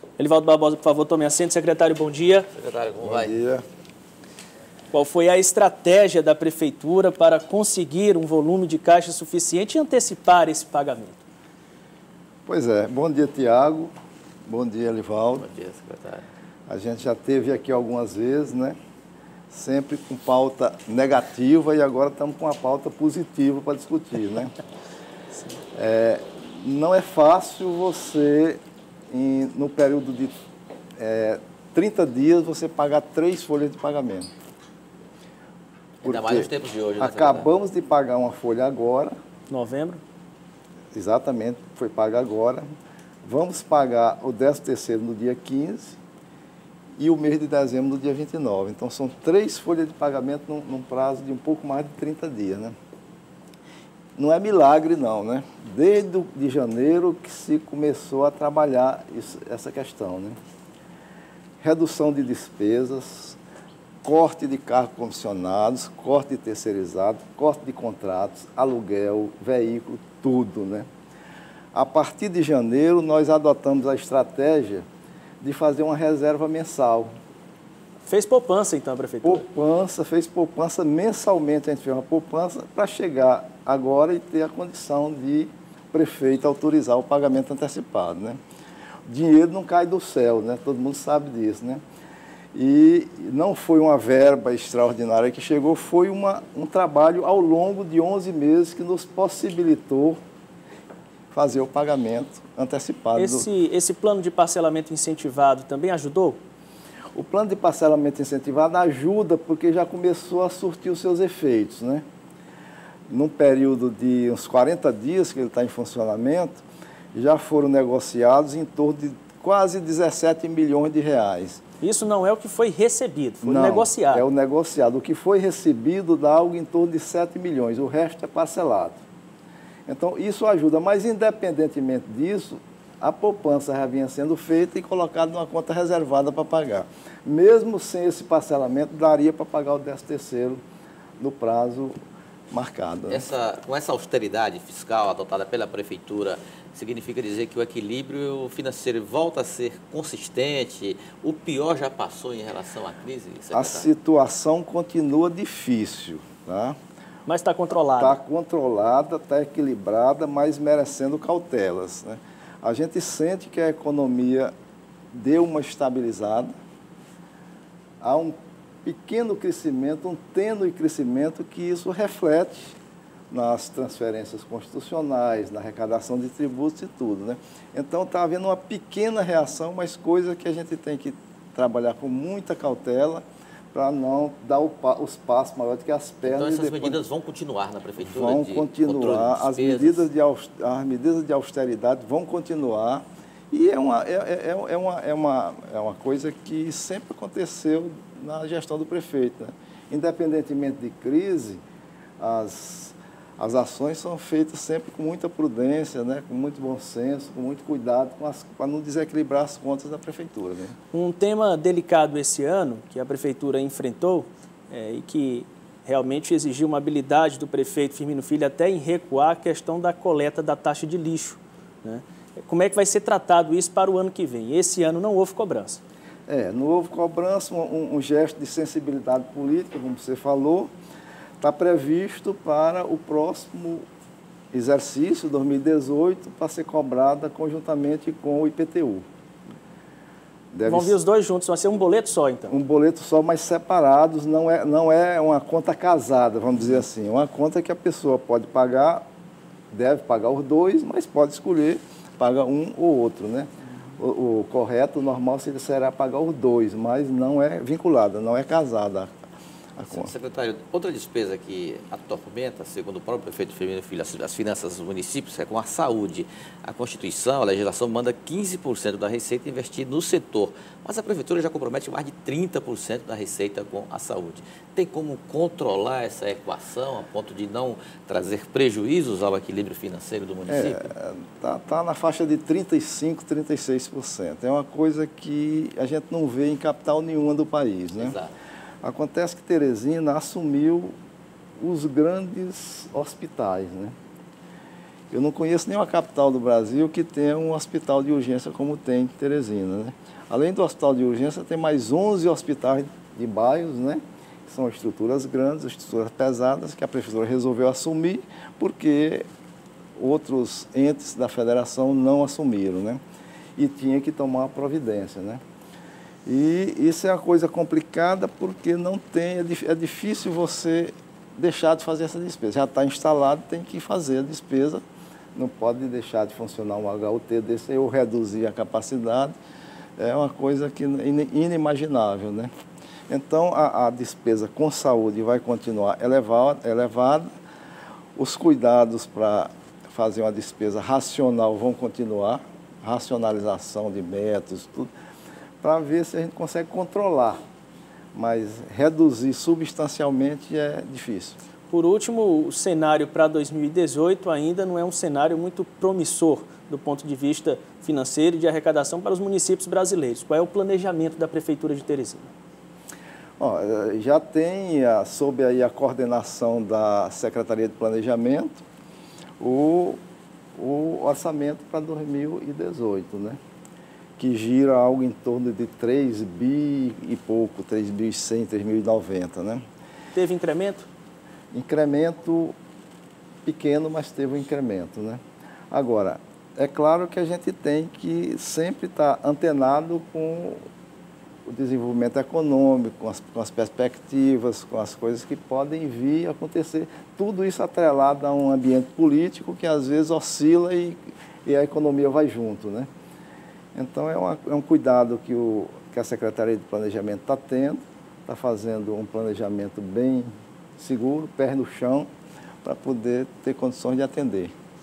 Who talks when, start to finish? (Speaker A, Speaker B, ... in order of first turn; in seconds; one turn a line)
Speaker A: 0.2-2.5
Speaker B: 2.5-3.4
Speaker C: 3.0-3.6
Speaker A: 4.9-11.2
Speaker C: 12.5-13.9
Speaker C: 14.5-15.4
Speaker B: 15.4-16.2
Speaker C: 16.7-18.8
Speaker C: 19.5-24.6
Speaker C: 25.7-28.6
Speaker C: 29.1-30.3
Speaker C: 31.0-34.3
Speaker B: 36.0-37.5
Speaker C: 36.0-39.1
Speaker A: 39.5-40.0
Speaker C: 40.9-42.6
Speaker C: 43.2-46.0
Speaker C: 47.0-52.7
Speaker C: 54.1-60.4
Speaker C: 61.6-63.4
Speaker C: 64.0-70.9
Speaker C: 71.7-74.8
Speaker C: 75.4-77.1
Speaker A: 78.0-79.5
Speaker C: 79.2-88.4
Speaker C: 89.0-91.8
Speaker C: 92.5-100.2
Speaker C: 101.3-103.5
Speaker A: 103.1-106.4
Speaker C: 107.1-112.0
Speaker C: 113.1-116.6
Speaker C: 117.1-121.6
Speaker A: 121.8-124.3
Speaker C: 123.4-129.0
Speaker C: 129.9-140.6
Speaker C: 141.2-141.9
Speaker C: 142.5-143.3
Speaker B: 143.1-153.9
Speaker C: 153.5-156.8
Speaker A: 157.2-158.2
Speaker C: 157.9-164.5
Speaker C: 165.1-166.5
Speaker C: 168.0-172.8
Speaker C: 173.3-187.0
Speaker B: 186.2-190.1
Speaker C: 188.0-201.6
Speaker C: 202.2-210.7
Speaker A: 210.9-225.8
Speaker C: 226.3-230.7
Speaker C: 231.4-233.8
Speaker C: 234.5-239.0
Speaker C: 240.5-241.0
Speaker A: 240.7-242.6
Speaker C: 242.5-249.0
Speaker C: 249.7-259.1
Speaker C: 259.8-260.1
Speaker B: 259.9-280.9
Speaker C: 280.5-288.2
Speaker B: 288.0-288.3
Speaker C: 288.8-290.9
Speaker C: 291.6-293.9
Speaker C: 295.1-309.3
Speaker C: 310.0-313.0
Speaker C: 313.6-315.4
Speaker C: 316.2-324.8
Speaker C: 325.3-329.3
Speaker C: 330.0-332.5
Speaker C: 333.1-337.3
Speaker C: 338.1-344.9
Speaker C: 345.6-347.4
Speaker C: 348.1-351.4
Speaker A: 351.7-362.3
Speaker C: 363.4-368.6
Speaker C: 369.4-370.0
Speaker C: 370.6-373.4
Speaker C: 374.2-379.6
Speaker A: 380.1-380.9
Speaker C: 381.5-382.5
Speaker C: 383.4-390.6
Speaker C: 391.4-402.9
Speaker C: 403.7-412.1
Speaker C: 412.6-414.5